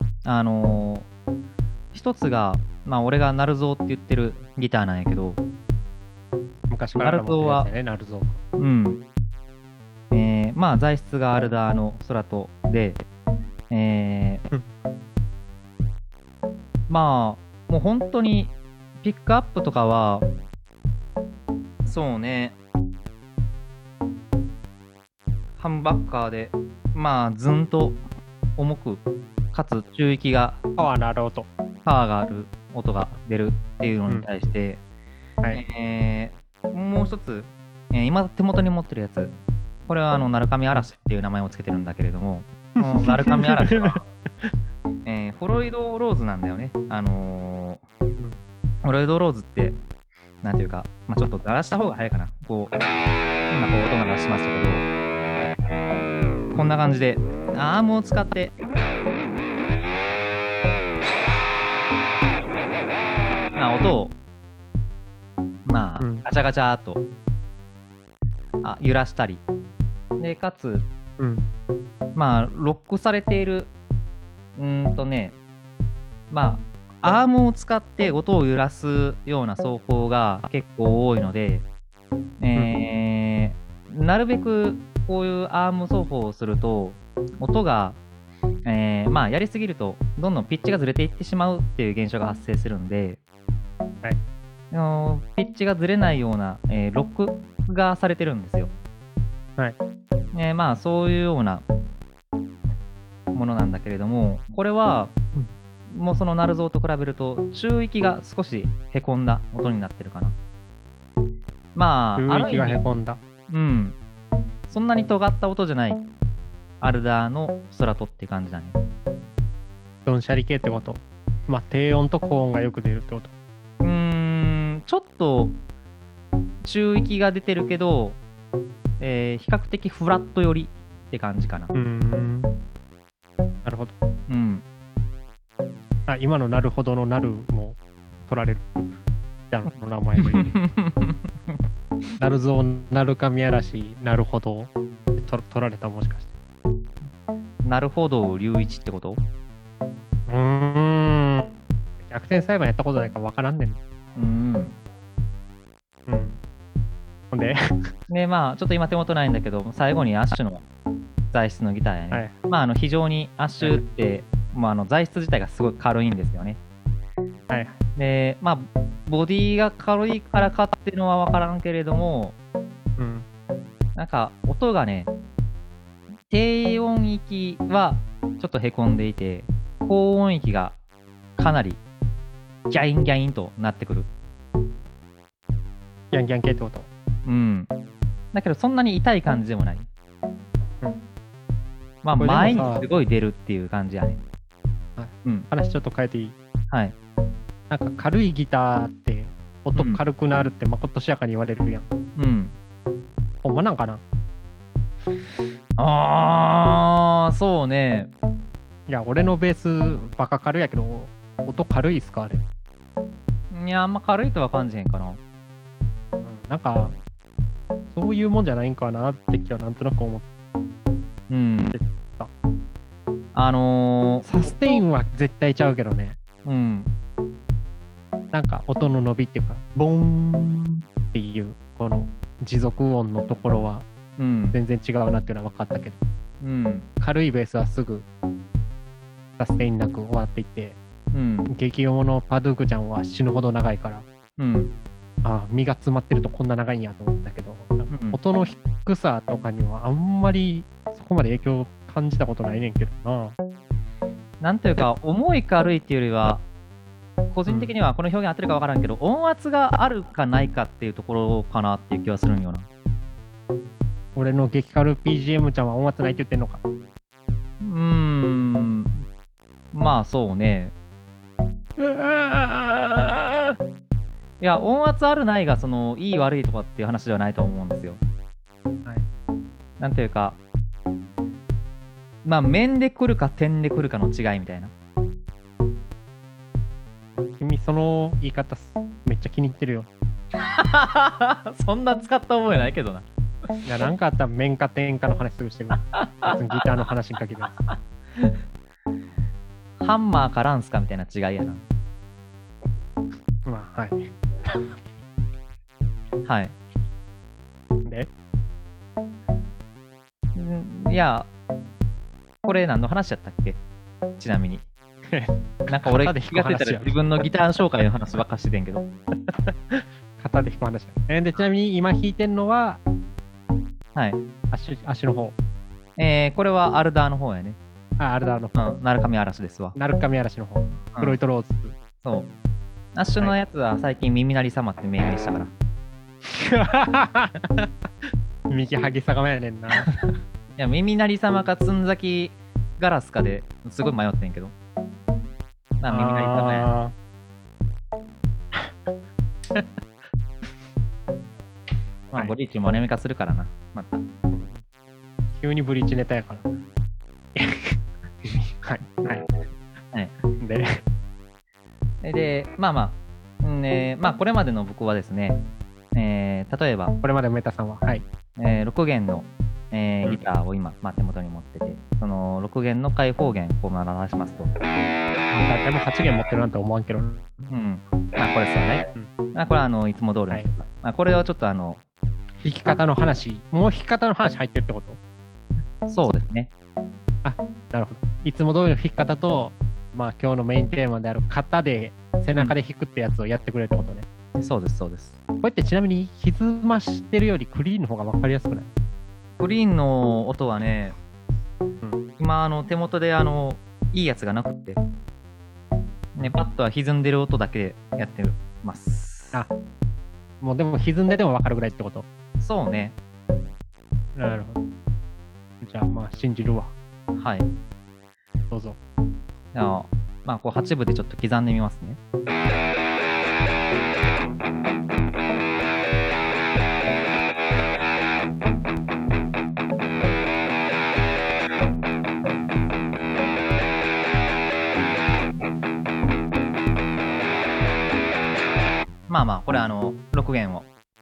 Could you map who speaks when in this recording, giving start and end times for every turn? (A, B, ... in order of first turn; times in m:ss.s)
0:00.2-0:01.1 A
0:01.9-0:05.4 A
0:06.7-0:08.4 B
0:06.9-0:07.7 A
0:08.6-0:09.0 A
0:10.1-0:13.0 A
0:13.7-0:14.4 A
0:16.9-0:20.2 A
0:21.8-0:22.6 A
0:25.6-0:28.0 A
0:28.6-0:29.0 A
0:29.5-0:30.6 A
0:30.8-0:31.5 B
0:31.8-0:34.8 A
0:35.5-0:39.3 A
0:39.9-0:44.0 A
0:42.8-0:44.5 B
0:45.0-0:47.8 A
0:48.8-0:49.8 A
0:50.4-0:52.7 A
0:53.5-0:54.8 A
0:56.5-0:58.5 A
1:03.5-1:04.1 A
1:05.6-1:07.0 A
1:06.0-1:06.2 B
1:08.6-1:09.4 A
1:10.2-1:10.8 A
1:11.2-1:11.4 B
1:12.1-1:13.7 A
1:14.6-1:15.4 A
1:16.3-1:21.6 A
1:22.4-1:28.0 A
1:28.6-1:33.2 A
1:34.7-1:38.7 A
1:40.3-1:41.6 A
1:43.3-1:45.1 A
1:45.9-1:50.3 A
1:51.7-1:52.8 A
1:52.2-1:53.2 B
1:53.5-1:54.0 A
1:54.7-1:56.0 A
1:56.8-1:58.8 A
2:00.0-2:03.3 B
2:03.8-2:05.6 A
2:06.6-2:08.2 A
2:09.0-2:11.7 A
2:11.7-2:12.5 B
2:13.6-2:13.9 B
2:14.3-2:14.6 A
2:16.1-2:18.9 B
2:19.5-2:20.6 B
2:20.2-2:21.5 A
2:22.2-2:26.3 B
2:27.6-2:29.2 A
2:30.3-2:33.8 B
2:34.2-2:34.8 A
2:36.1-2:36.4 B
2:37.3-2:37.9 B
2:38.1-2:40.6 A
2:41.3-2:46.6 A
2:47.5-2:47.8 B
2:48.0-2:52.3 A
2:53.0-2:53.2 B
2:53.9-2:55.1 A
2:56.3-3:00.8 A
3:01.4-3:01.8 A
3:02.7-3:04.1 A
3:06.1-3:06.9 B
3:07.2-3:07.7 A
3:08.3-3:09.9 A
3:12.0-3:14.2 A
3:12.2-3:12.8 B
3:15.0-3:16.3 B
3:17.7-3:21.8 B
3:19.7-3:20.0 A
3:22.2-3:22.5 A
3:23.4-3:24.0 B
3:25.8-3:28.1 A
3:28.9-3:32.4 B
3:33.5-3:35.2 A
3:36.2-3:36.9 B
3:37.9-3:40.2 B
3:41.3-3:41.8 A
3:41.7-3:42.3 B
3:43.3-3:44.2 A
3:44.2-3:46.2 B
3:46.4-3:46.9 A
3:48.3-3:53.8 B
3:54.2-3:54.6 A
3:54.5-3:56.0 B
3:56.4-3:56.9 A
3:57.0-3:58.0 B
3:59.4-4:00.8 B
4:01.1-4:01.5 A
4:01.5-4:04.0 B
4:04.4-4:04.7 A
4:05.2-4:13.4 B
4:07.9-4:08.2 A
4:14.4-4:16.4 A
4:17.3-4:22.7 A
4:17.5-4:17.7 B
4:24.2-4:26.6 B
4:27.6-4:29.0 A
4:29.7-4:30.7 A
4:31.8-4:33.6 B
4:34.4-4:38.0 A
4:39.8-4:40.4 A
4:42.2-4:44.7 A
4:47.3-4:49.9 B
4:50.4-4:53.0 A
4:53.6-4:57.6 B
4:55.9-4:56.3 A
4:57.7-4:58.3 A
4:59.8-5:01.6 A
5:03.4-5:04.1 B
5:06.2-5:06.5 A
5:07.8-5:08.1 B
5:10.3-5:11.3 A
5:12.4-5:13.6 A
5:14.2-5:14.6 A
5:15.1-5:17.0 B
5:15.7-5:18.9 A
5:19.3-5:22.8 B
5:23.9-5:24.2 A
5:24.5-5:25.4 B
5:26.0-5:27.6 A
5:28.0-5:28.6 B
5:28.6-5:29.8 A
5:29.8-5:31.8 B
5:32.0-5:32.3 A
5:32.9-5:35.5 A
5:36.2-5:37.7 B
5:38.5-5:40.0 B
5:40.6-5:44.5 A
5:45.8-5:46.7 A
5:45.9-5:46.9 B
5:52.1-5:54.0 A
5:54.3-5:54.6 B
5:55.4-5:56.5 B
5:57.4-5:59.3 B
6:00.4-6:00.8 B
6:02.0-6:05.4 A
6:05.9-6:06.9 A
6:07.0-6:08.0 B
6:08.4-6:14.5 A
6:15.3-6:17.5 B
6:17.5-6:21.8 A
6:22.4-6:25.0 B
6:25.8-6:26.5 A
6:27.2-6:34.1 B
6:34.4-6:35.2 A
6:35.4-6:38.7 B
6:39.4-6:41.0 A
6:42.2-6:44.8 A
6:46.2-6:49.4 A
6:50.4-6:52.1 B
6:52.4-6:52.9 A
6:54.2-6:54.6 B
6:55.6-6:56.7 B
6:57.1-6:57.5 A
6:58.5-6:58.8 B
6:59.5-7:02.0 A
7:19.1-7:20.7 A